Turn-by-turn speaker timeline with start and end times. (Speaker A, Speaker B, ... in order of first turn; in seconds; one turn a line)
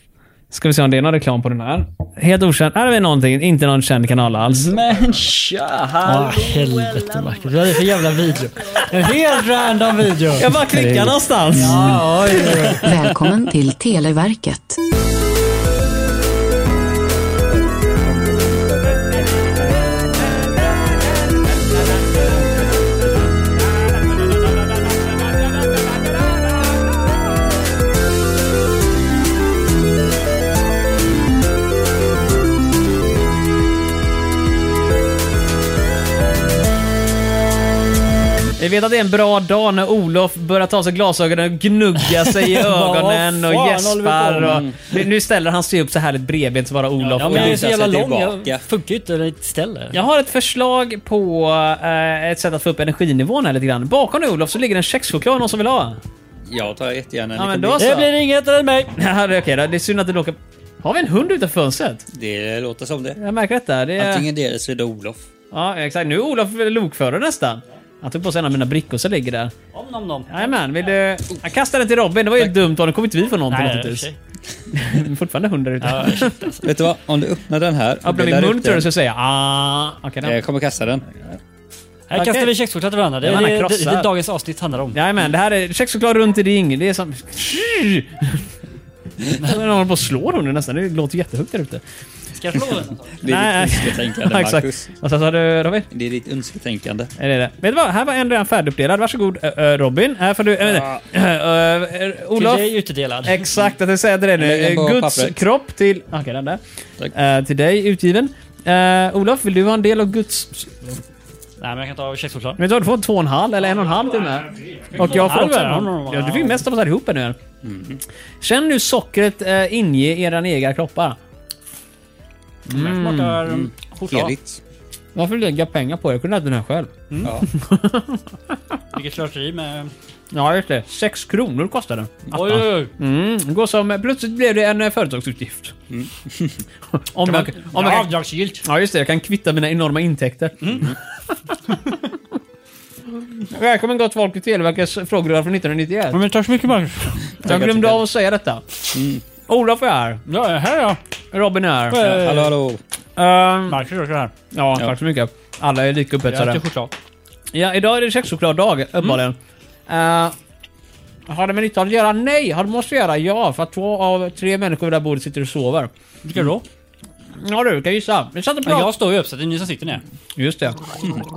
Speaker A: 0.5-4.7
Speaker B: 4.5-10.5
Speaker A: 6.0-7.5
Speaker A: 10.4-12.8
Speaker C: 10.7-11.2
Speaker B: 11.5-12.9
Speaker D: 12.8-14.8
Speaker C: 22.3-22.6
Speaker A: 38.6-47.6
Speaker B: 42.2-44.6
Speaker C: 44.4-44.7
Speaker B: 47.0-50.0
Speaker C: 47.2-48.6
Speaker A: 49.9-56.0
Speaker C: 56.5-58.0
Speaker A: 57.4-58.1
Speaker B: 57.8-58.9
Speaker A: 59.0-62.1
Speaker C: 62.1-63.2
Speaker A: 63.2-64.3
Speaker C: 64.0-65.3
Speaker A: 65.5-69.5
Speaker B: 69.7-70.4
Speaker A: 70.3-74.1
Speaker B: 73.5-74.2
Speaker A: 74.7-76.4
Speaker B: 75.8-76.7
Speaker C: 76.6-78.9
Speaker A: 78.0-80.4
Speaker C: 80.2-81.0
Speaker B: 82.1-85.0
Speaker A: 82.2-82.5
Speaker A: 83.2-84.1
Speaker A: 84.9-88.5
Speaker A: 89.3-91.8
Speaker B: 92.4-93.2
Speaker C: 93.2-94.9
Speaker A: 93.2-95.9
Speaker C: 95.9-97.1
Speaker A: 97.2-102.7
Speaker B: 102.4-103.5
Speaker A: 103.2-106.6
Speaker C: 104.4-105.4
Speaker A: 107.1-111.0
Speaker B: 111.6-112.6
Speaker A: 112.6-117.4
Speaker B: 114.9-116.6
Speaker C: 117.6-118.0
Speaker A: 118.4-121.2
Speaker B: 122.7-123.7
Speaker A: 122.7-123.4
Speaker C: 123.5-124.6
Speaker A: 123.9-124.3
Speaker A: 125.2-128.2
Speaker B: 127.1-127.4
Speaker C: 127.2-127.5
Speaker B: 128.9-129.9
Speaker A: 130.3-135.8
Speaker B: 132.3-132.9
Speaker C: 135.9-136.6
Speaker A: 137.0-142.0
Speaker B: 137.3-138.7
Speaker C: 140.7-141.0
Speaker A: 143.2-146.2
Speaker B: 146.1-147.3
Speaker C: 147.4-148.0
Speaker A: 147.4-148.7
Speaker C: 148.9-149.2
Speaker A: 149.5-150.2
Speaker B: 150.3-151.0
Speaker A: 151.3-152.2
Speaker B: 151.9-152.5
Speaker C: 152.0-152.8
Speaker A: 153.2-153.8
Speaker B: 153.7-154.3
Speaker A: 154.5-156.6
Speaker B: 156.3-156.9
Speaker A: 157.5-159.4
Speaker A: 159.9-160.3
Speaker A: 161.3-166.6
Speaker A: 167.4-168.9
Speaker B: 168.7-170.0
Speaker A: 170.4-170.9